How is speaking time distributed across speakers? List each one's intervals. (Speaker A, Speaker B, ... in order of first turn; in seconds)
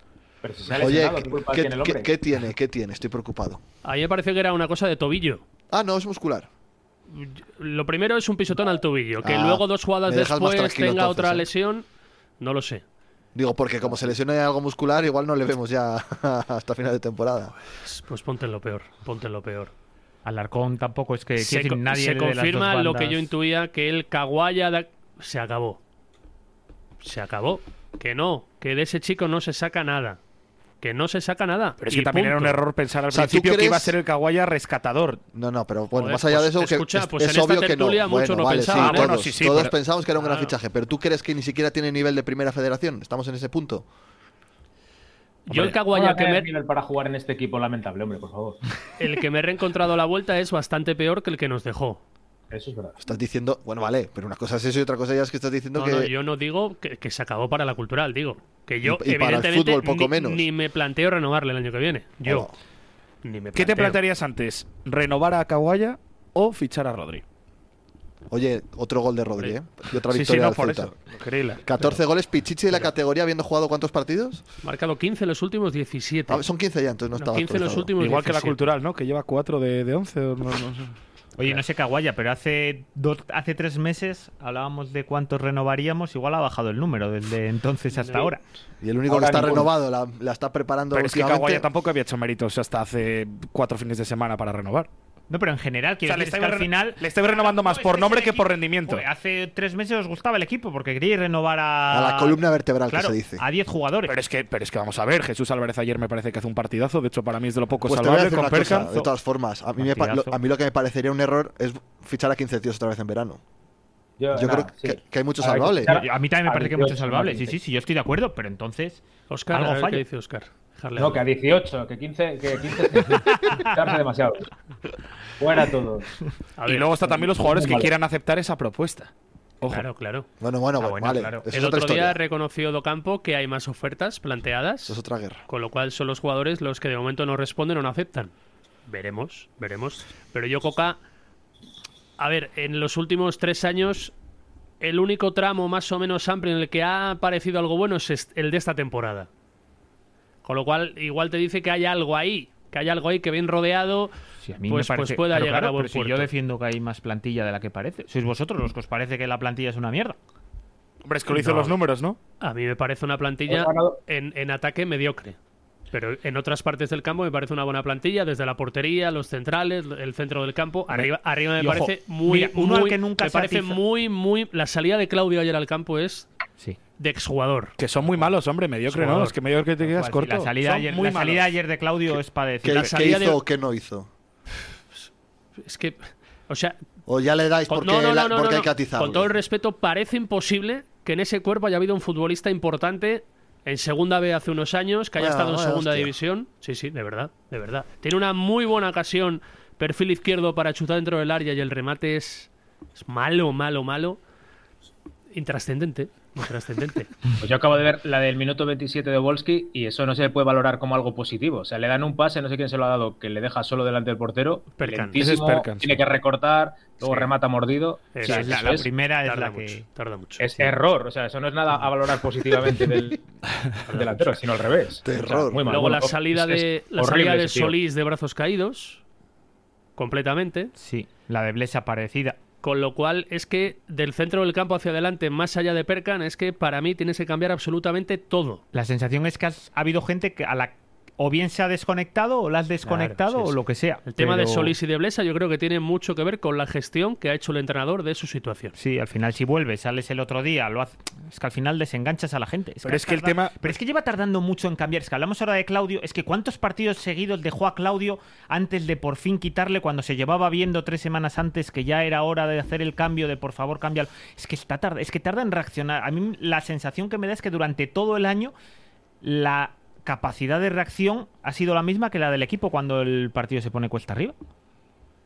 Speaker A: 0.4-2.1, 45.8-48.6, 52.5-53.0, 89.1-89.7, 114.2-117.5, 121.0-124.5, 125.4-126.1, 127.0-127.9, 163.5-164.0, 207.4-218.9, 220.4-223.2, 223.9-227.7
Speaker B: 0.7-3.6, 5.7-6.5, 9.2-11.5, 13.3-17.5, 33.1-33.9, 35.3-43.8, 53.0-56.1, 58.8-60.5, 62.2-62.5, 68.3-70.9, 71.6-74.4, 76.3-77.9, 88.8-91.7, 101.9-103.4, 107.8-113.4, 114.3-116.0, 130.4-132.2, 134.9-135.4, 182.6-184.1, 187.1-189.3, 195.2-196.1, 225.0-225.7
Speaker C: 3.8-5.4, 7.1-11.8, 12.4-12.8, 17.8-19.7, 21.4-25.8, 27.0-30.2, 30.8-32.6, 35.9-39.2, 40.2-40.5, 45.5-46.5, 49.0-52.0, 55.7-62.5, 63.2-64.0, 74.6-76.4, 77.2-78.6, 88.0-88.3, 119.3-121.2, 126.6-126.9, 129.7-130.3, 131.5-138.3, 138.8-141.0, 142.2-144.1, 144.8-149.3, 150.4-154.1, 154.7-156.3, 161.3-161.8, 162.4-165.4, 165.9-176.3, 177.0-177.8, 178.9-179.3, 182.7-183.4, 185.6-186.8, 187.7-204.2, 205.3-207.1, 214.8-215.2, 217.0-217.3, 218.1-220.7, 223.8-224.3, 225.7-229.0, 230.0-230.7, 232.6-238.6, 242.8-248.7
Speaker D: 20.2-23.3, 81.4-88.4, 95.3-104.1, 108.7-109.1, 109.8-110.3, 115.9-120.0, 123.3-123.8, 130.8-131.4, 154.4-160.2, 171.6-173.8, 179.8-183.1, 218.2-219.8, 230.8-232.4, 238.7-244.7, 248.8-268.5, 269.2-274.3
Speaker E: 31.8-35.2, 38.7-39.8, 63.5-67.2, 70.1-71.6, 78.0-80.9, 90.9-94.9, 96.0-99.0, 104.0-108.9, 126.7-129.8, 161.0-162.2, 177.8-181.5, 215.2-216.0, 252.8-253.5